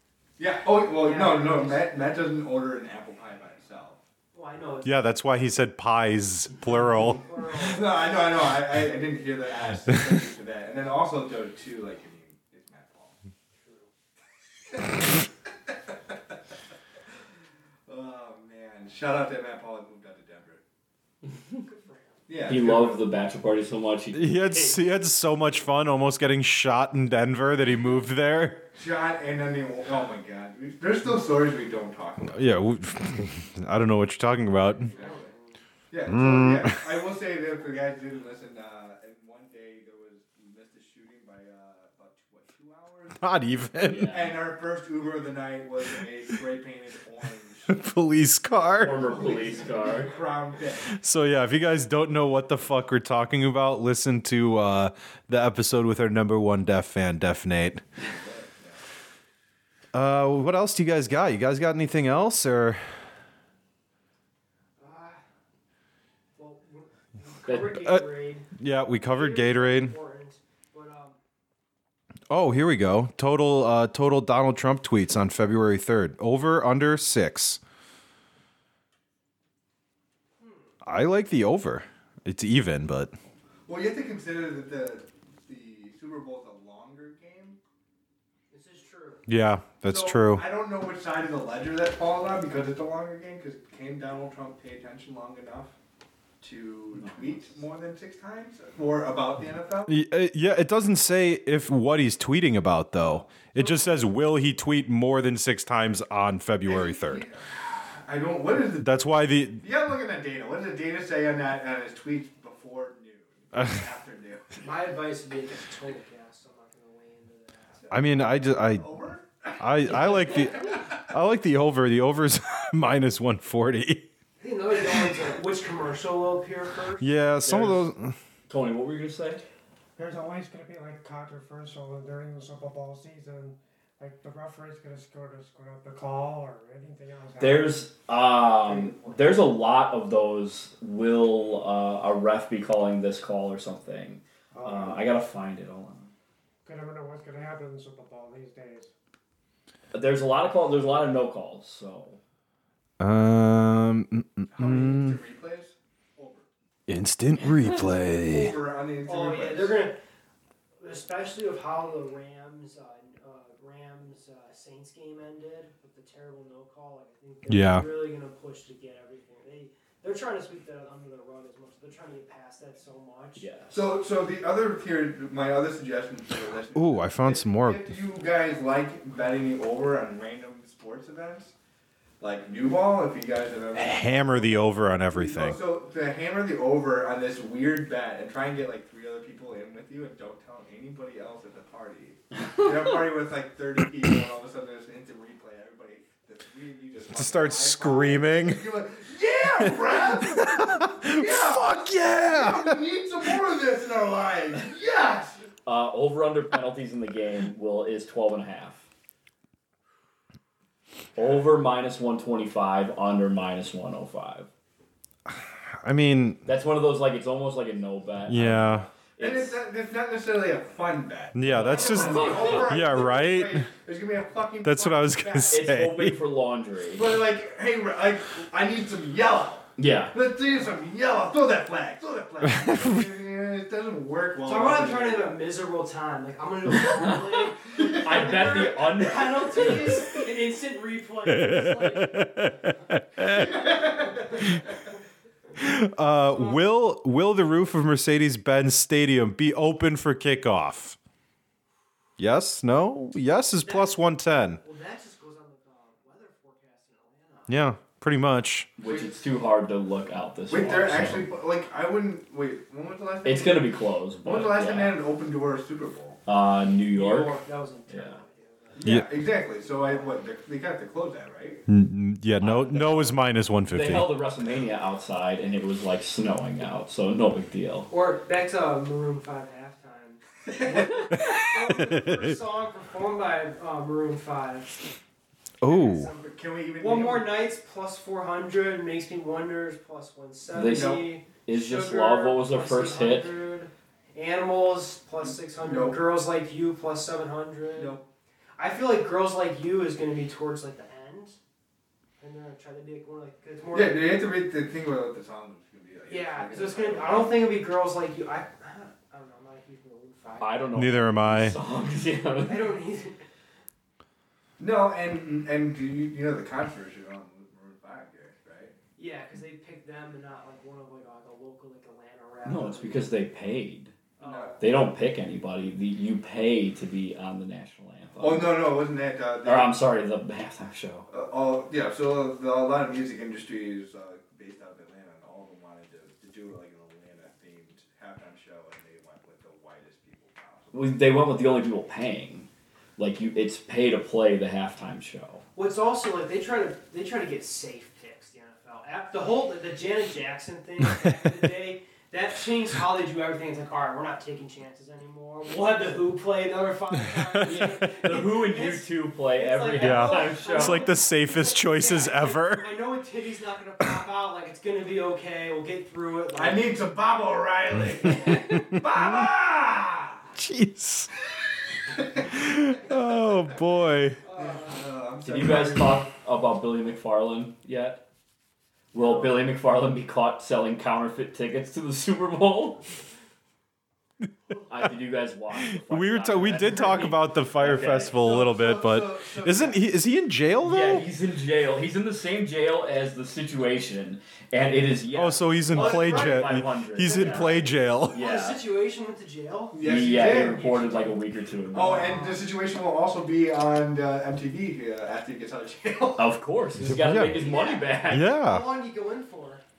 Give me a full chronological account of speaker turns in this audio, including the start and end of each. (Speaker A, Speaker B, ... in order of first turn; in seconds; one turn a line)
Speaker A: 0.4-4.0
Speaker B: 0.9-1.9
Speaker B: 4.3-5.0
Speaker C: 4.8-7.2
Speaker B: 6.7-8.3
Speaker A: 7.4-13.2
Speaker B: 13.6-13.9
Speaker A: 14.7-15.1
Speaker A: 17.9-20.6
Speaker B: 21.5-22.2
Speaker A: 22.3-23.0
Speaker D: 22.5-24.8
Speaker C: 24.1-28.7
Speaker A: 28.7-32.5
Speaker C: 32.3-34.9
Speaker B: 34.8-35.6
Speaker A: 34.9-35.3
Speaker A: 35.9-43.3
Speaker C: 36.1-36.8
Speaker C: 43.2-44.1
Speaker D: 43.9-44.4
Speaker A: 44.0-47.8
Speaker C: 47.7-49.1
Speaker D: 48.8-50.2
Speaker A: 48.8-51.0
Speaker C: 50.9-57.8
Speaker A: 58.0-58.8
Speaker C: 59.9-62.8
Speaker B: 64.8-65.2
Speaker B: 66.4-68.5
Speaker D: 67.5-67.8
Speaker C: 67.7-68.1
Speaker C: 68.6-69.9
Speaker B: 69.0-71.2
Speaker C: 72.3-77.6
Speaker B: 80.4-80.8
Speaker C: 80.8-83.2
Speaker A: 83.7-87.6
Speaker B: 88.5-89.2
Speaker C: 89.3-90.5
Speaker A: 89.9-95.7
Speaker A: 96.4-100.0
Speaker D: 96.9-97.5
Speaker C: 99.9-107.3
Speaker A: 106.7-109.0
Speaker C: 108.8-109.6
Speaker A: 109.6-114.6
Speaker B: 114.6-117.8
Speaker A: 117.8-120.9
Speaker C: 117.9-118.9
Speaker C: 119.6-124.1
Speaker B: 124.4-127.1
Speaker C: 127.0-128.2
Speaker D: 127.4-127.9
Speaker D: 128.5-129.4
Speaker E: 130.0-137.8
Speaker D: 137.4-146.1
Speaker E: 138.7-139.2
Speaker E: 144.5-145.0
Speaker E: 146.7-148.9
Speaker D: 149.9-152.2
Speaker C: 153.0-155.2
Speaker A: 154.5-156.5
Speaker C: 156.9-158.5
Speaker A: 158.1-159.9
Speaker B: 159.0-160.0
Speaker B: 160.8-173.5
Speaker C: 167.5-167.9
Speaker D: 173.4-173.8
Speaker A: 173.7-181.5
Speaker C: 176.8-177.8
Speaker A: 182.2-205.4
Speaker C: 183.7-185.6
Speaker C: 197.1-198.7
Speaker C: 199.6-202.8
Speaker D: 205.7-208.8
Speaker D: 211.2-214.5
Speaker C: 215.3-216.4
Speaker D: 216.5-219.6
Speaker C: 218.3-218.9
Speaker A: 219.2-225.7
Speaker C: 221.3-223.7
Speaker D: 221.5-222.7
Speaker B: 221.8-222.7
Speaker C: 224.6-226.2
Speaker D: 225.5-227.2
Speaker A: 227.0-235.4
Speaker D: 229.8-230.2
Speaker C: 232.4-233.1
Speaker B: 234.4-244.6
Speaker D: 236.7-240.2
Speaker C: 241.3-243.6
Speaker C: 245.6-251.0
Speaker B: 246.4-246.7
Speaker C: 252.2-254.6
Speaker B: 253.6-254.0
Speaker B: 254.6-257.7
Speaker C: 257.5-258.7
Speaker D: 258.8-261.3
Speaker A: 258.9-259.1
Speaker A: 260.5-263.7
Speaker D: 263.2-265.0
Speaker A: 264.2-266.2
Speaker D: 266.3-267.4
Speaker B: 266.9-270.2
Speaker D: 267.9-268.2
Speaker A: 268.8-271.6
Speaker C: 268.8-269.1
Speaker C: 271.7-274.1
Speaker D: 272.4-273.2
Speaker D: 273.7-277.9
Speaker B: 277.9-284.8
Speaker A: 280.6-281.1
Speaker C: 281.1-282.4
Speaker C: 285.6-286.1
Speaker B: 285.6-298.0
Speaker A: 286.2-287.5
Speaker D: 290.5-293.3
Speaker A: 290.7-292.0
Speaker A: 295.2-296.0
Speaker A: 297.7-298.1
Speaker B: 298.6-301.4
Speaker B: 302.2-304.2
Speaker A: 303.7-307.5
Speaker B: 306.1-310.7
Speaker D: 310.4-312.8
Speaker C: 310.8-311.6
Speaker B: 312.4-313.2
Speaker A: 314.6-318.7
Speaker B: 319.0-323.1
Speaker D: 322.4-323.9
Speaker B: 324.2-324.6
Speaker A: 324.2-324.6
Speaker D: 324.6-328.7
Speaker A: 328.2-329.7
Speaker D: 329.4-331.1
Speaker A: 331.1-340.7
Speaker D: 340.7-345.4
Speaker B: 345.6-366.7
Speaker C: 357.2-358.1
Speaker D: 357.4-360.9
Speaker C: 359.8-362.7
Speaker A: 366.3-370.3
Speaker B: 368.1-368.7
Speaker C: 368.1-369.3
Speaker C: 370.4-371.1
Speaker A: 371.9-372.3
Speaker C: 372.3-374.2
Speaker B: 374.2-374.8
Speaker A: 374.4-376.0
Speaker D: 375.2-378.0
Speaker D: 378.9-382.9
Speaker D: 384.7-388.2
Speaker C: 385.8-391.1
Speaker A: 388.1-389.9
Speaker D: 390.6-397.6
Speaker C: 395.1-398.2
Speaker B: 395.7-401.1
Speaker D: 398.1-398.6
Speaker A: 399.7-400.8
Speaker D: 399.8-402.2
Speaker A: 401.7-406.4
Speaker B: 401.8-402.4
Speaker D: 406.2-408.3
Speaker C: 406.8-407.4
Speaker B: 407.2-409.6
Speaker C: 408.1-408.7